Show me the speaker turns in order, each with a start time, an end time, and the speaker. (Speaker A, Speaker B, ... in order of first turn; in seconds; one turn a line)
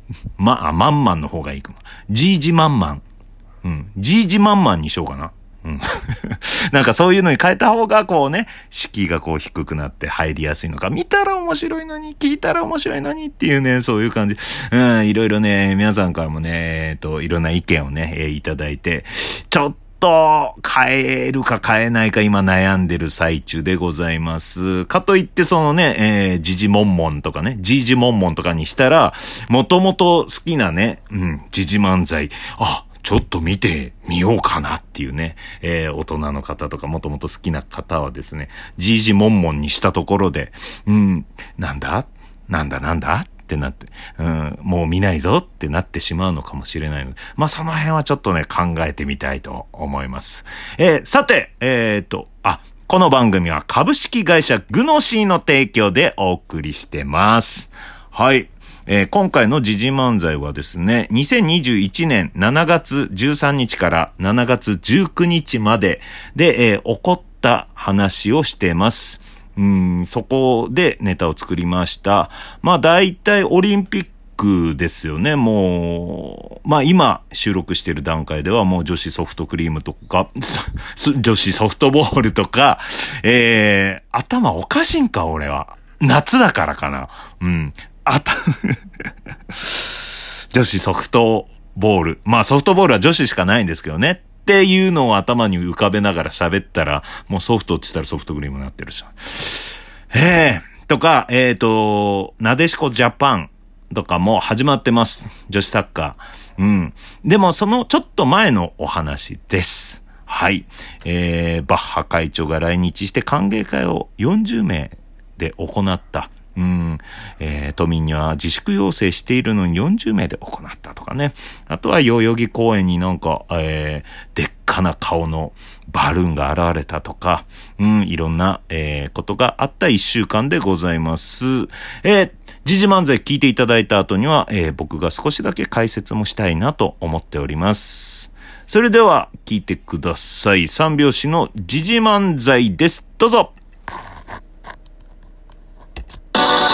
Speaker A: 0.4-3.0
Speaker A: 3.6-88.8
Speaker A: 90.5-143.6